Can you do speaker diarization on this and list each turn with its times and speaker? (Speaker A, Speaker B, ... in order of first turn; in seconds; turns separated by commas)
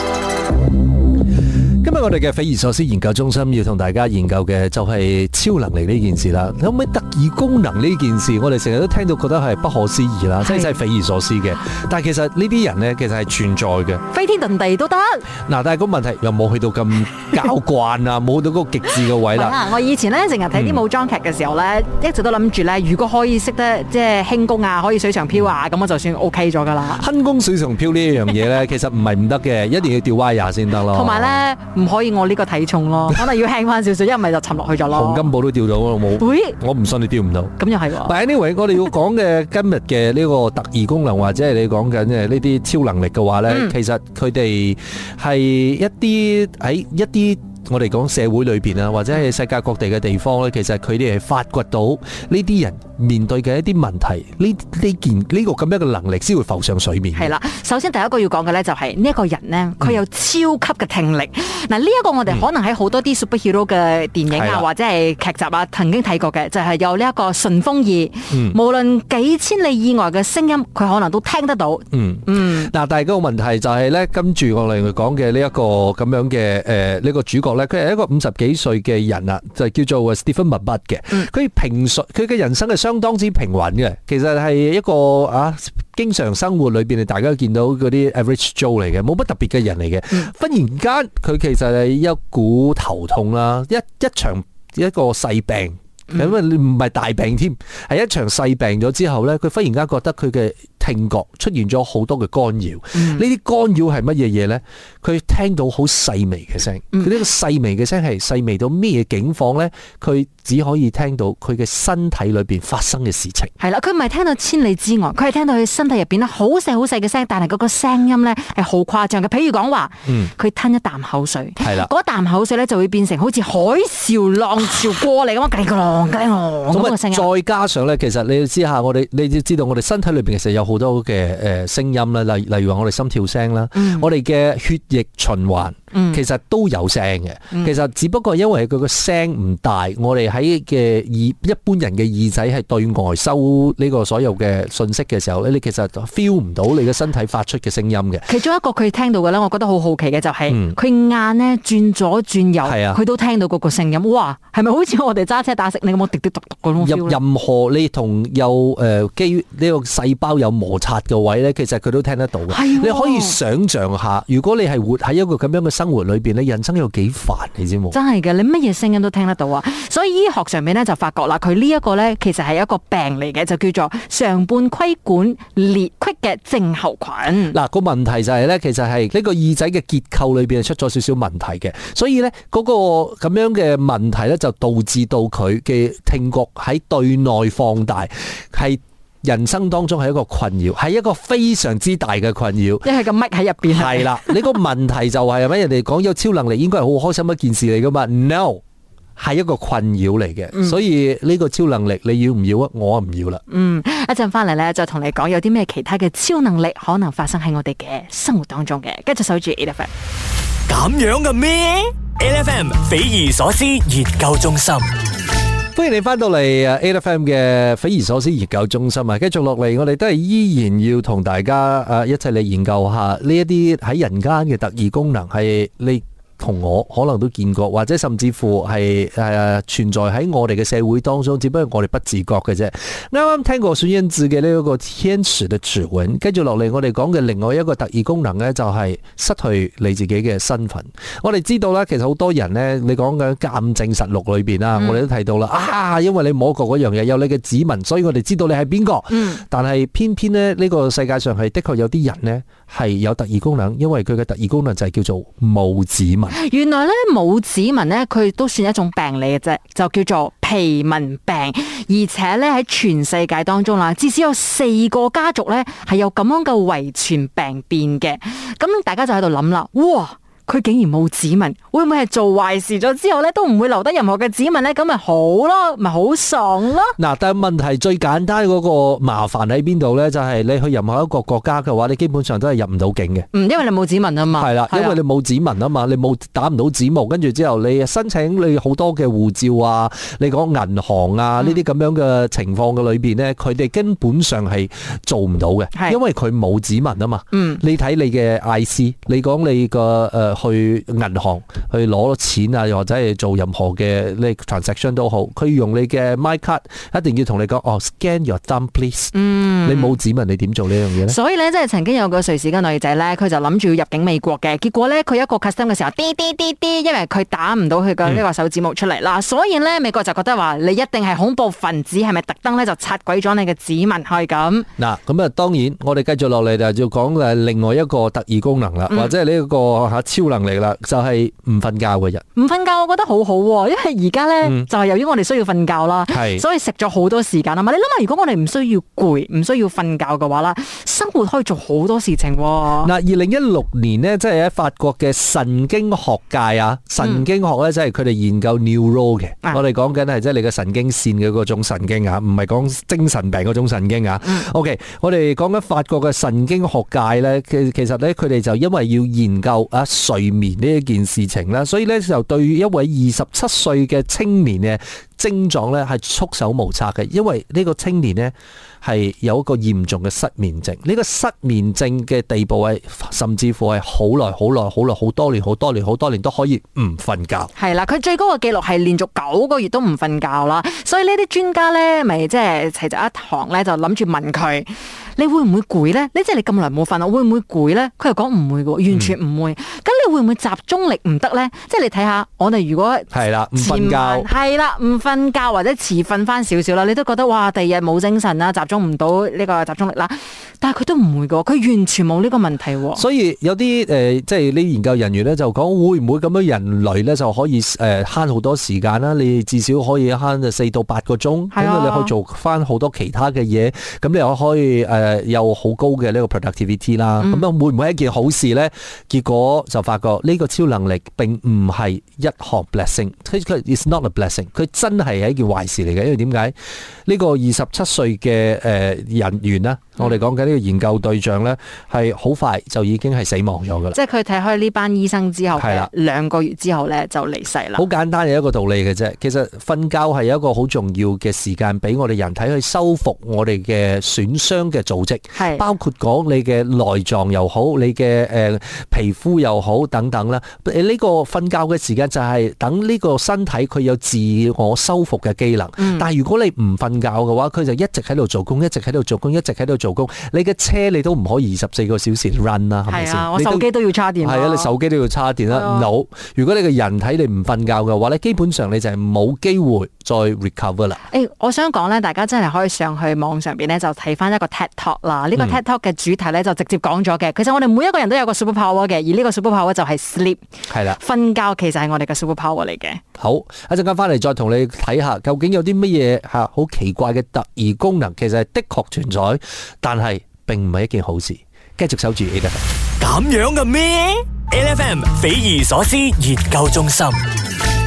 Speaker A: 1.8-14.0, Speaker B: 10.4-10.8, Speaker B: 14.1-15.3, Speaker A: 15.4-19.6, Speaker B: 19.2-27.1, Speaker A: 20.5-20.8, Speaker A: 26.9-31.4, Speaker B: 30.9-35.3, Speaker A: 34.9-57.3, Speaker B: 36.2-36.6, Speaker B: 37.6-38.1, Speaker B: 43.5-43.7, Speaker B: 57.1-72.7, Speaker A: 64.3-64.7, Speaker A: 68.3-68.6, Speaker A: 71.9-113.5, Speaker B: 102.9-103.2, Speaker B: 113.6-127.3, Speaker A: 120.0-120.3, Speaker A: 121.6-121.9, Speaker A: 126.7-148.3, Speaker B: 133.7-134.1, Speaker B: 135.9-136.2, Speaker B: 148.3-157.2, Speaker A: 150.5-150.7, Speaker A: 152.6-153.0, Speaker A: 156.8-168.0, Speaker B: 162.5-163.4, Speaker B: 167.9-177.6, Speaker A: 177.5-192.9, Speaker B: 192.8-194.4, Speaker A: 193.7-198.6, Speaker A: 199.2-203.4, Speaker B: 203.5-209.9, Speaker C: 210.7-214.9, Speaker A: 215.7-256.4, Speaker B: 244.8-245.0, Speaker B: 249.1-249.4, Speaker B: 256.3-276.9, Speaker A: 277.0-283.3, Speaker B: 283.3-285.0, Speaker A: 284.3-311.2, Speaker B: 297.3-297.6, Speaker B: 309.1-310.0, Speaker B: 311.1-324.7, Speaker A: 324.8-332.2, Speaker B: 332.3-342.9, Speaker A: 334.4-334.7, Speaker A: 336.1-336.4, Speaker A: 342.8-377.5, Speaker B: 377.5-403.0, Speaker A: 393.1-394.3, Speaker A: 402.9-426.5, Speaker B: 411.5-412.1, Speaker A: 427.1-433.9, Speaker B: 433.9-437.9, Speaker A: 435.6-435.9, Speaker A: 437.8-463.7, Speaker B: 445.3-445.6, Speaker B: 455.8-456.1, Speaker B: 462.9-464.7, Speaker A: 464.2-471.0, Speaker B: 465.5-465.9, Speaker B: 471.1-483.0, Speaker A: 480.7-481.0, Speaker A: 483.2-492.6, Speaker C: 493.0-497.2